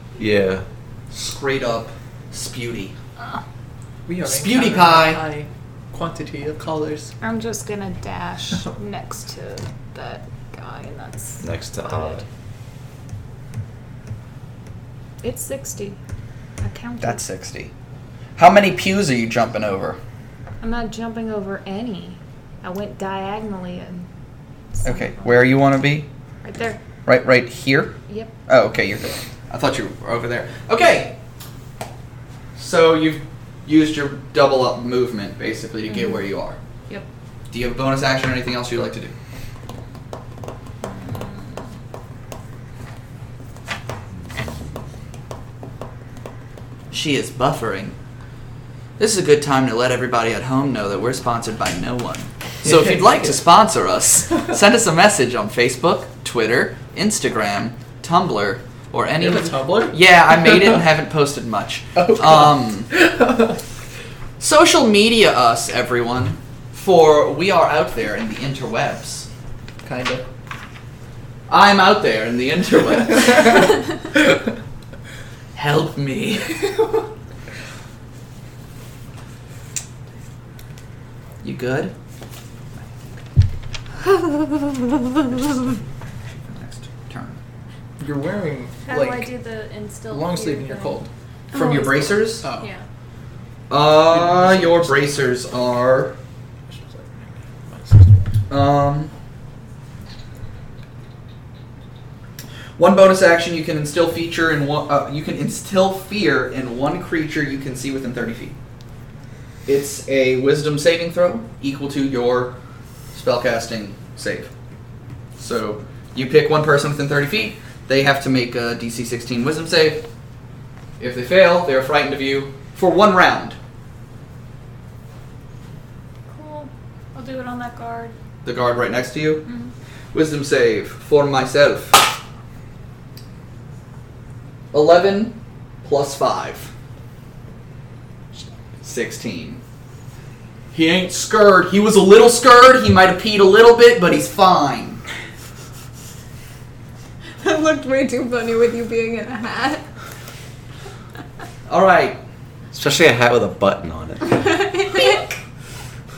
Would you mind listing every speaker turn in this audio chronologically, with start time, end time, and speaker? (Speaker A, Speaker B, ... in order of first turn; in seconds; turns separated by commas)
Speaker A: 0.2-0.6, Speaker B: 1.1-2.9, Speaker C: 4.1-7.1, Speaker B: 4.2-5.2, Speaker D: 7.2-12.2, Speaker A: 11.4-12.2, Speaker D: 15.2-16.0, Speaker D: 16.6-17.2, Speaker B: 17.0-17.7, Speaker B: 18.4-20.0, Speaker D: 20.6-24.1, Speaker D: 24.8-25.3, Speaker B: 24.8-26.1, Speaker D: 26.4-26.8, Speaker B: 27.1-31.1, Speaker B: 32.5-36.6, Speaker B: 37.5-39.1, Speaker D: 40.8-41.6, Speaker B: 46.9-48.0, Speaker B: 49.0-62.9, Speaker C: 52.6-53.2, Speaker C: 59.2-60.8, Speaker C: 62.0-63.6, Speaker B: 64.4-69.3, Speaker C: 69.8-70.2, Speaker B: 71.5-74.2, Speaker B: 75.5-76.8, Speaker B: 81.4-81.9, Speaker B: 86.5-87.4, Speaker C: 88.0-89.3, Speaker D: 88.8-91.0, Speaker C: 90.1-91.1, Speaker E: 91.5-92.2, Speaker B: 91.5-92.4, Speaker C: 92.4-92.7, Speaker B: 93.7-96.1, Speaker C: 94.1-95.2, Speaker C: 96.7-98.3, Speaker B: 98.5-99.1, Speaker B: 102.8-108.5, Speaker B: 109.7-112.5, Speaker B: 113.1-114.5, Speaker B: 115.4-120.0, Speaker B: 121.0-123.5, Speaker D: 126.3-128.1, Speaker B: 128.4-129.4, Speaker D: 129.4-129.7, Speaker B: 130.1-132.1, Speaker B: 134.7-136.7, Speaker B: 138.8-139.6, Speaker B: 140.7-145.0, Speaker E: 147.4-149.8, Speaker B: 151.7-152.2, Speaker A: 152.7-154.4, Speaker E: 154.3-155.4